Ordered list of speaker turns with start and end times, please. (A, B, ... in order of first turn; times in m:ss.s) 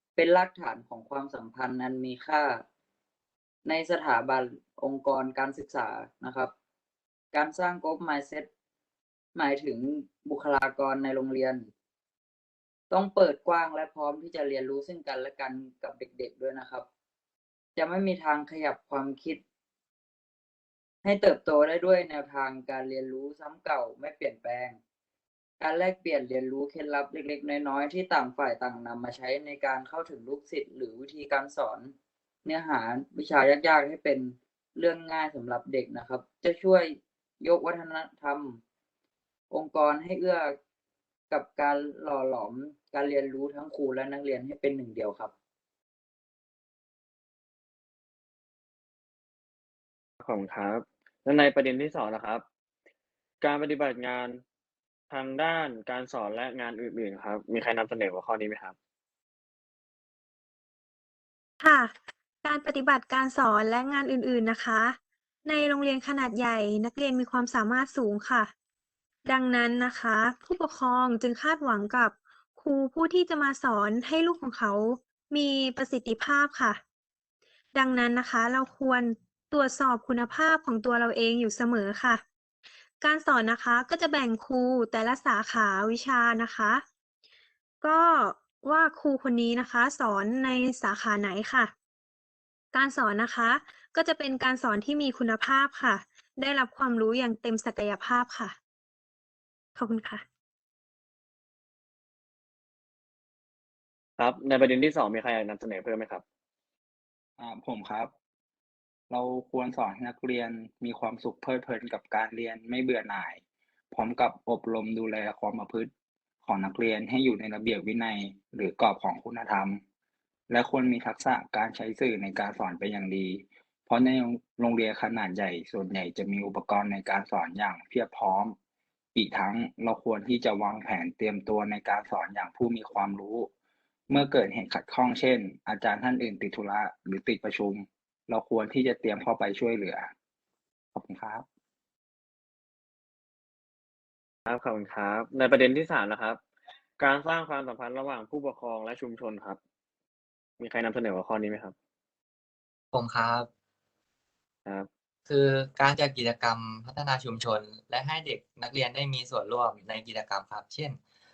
0:00.2-0:02.6 A
0:03.6-0:06.5 A
0:07.3-0:08.5 A
0:09.3-0:11.7 A
0:12.9-0:16.8 A
0:17.8-0:19.4 A
0:21.0-0:24.8 A
0:25.6-0:31.9 A
0:32.4-0:38.6 A
0:39.5-0:40.5 A
0:41.3-0:45.3 A
0:50.2-0:52.4 B
0:53.4-0:54.4 B
0:55.1-0:58.8 B
1:01.6-1:08.5 C
1:09.2-1:16.8 C
1:17.7-1:22.2 C
1:23.0-1:26.8 C
1:27.8-1:31.7 C
1:32.7-1:38.5 C
1:39.8-1:40.2 C
1:44.2-1:46.2 B
1:47.4-1:48.1 D
1:49.1-1:55.9 D
1:56.4-1:59.8 D
2:00.5-2:08.6 D
2:09.1-2:13.5 D
2:14.1-2:20.1 D
2:20.9-2:21.4 D
2:24.5-2:26.4 B
2:27.0-2:29.6 B
2:30.6-2:31.7 B
2:32.9-2:33.5 E
2:35.3-2:41.0 E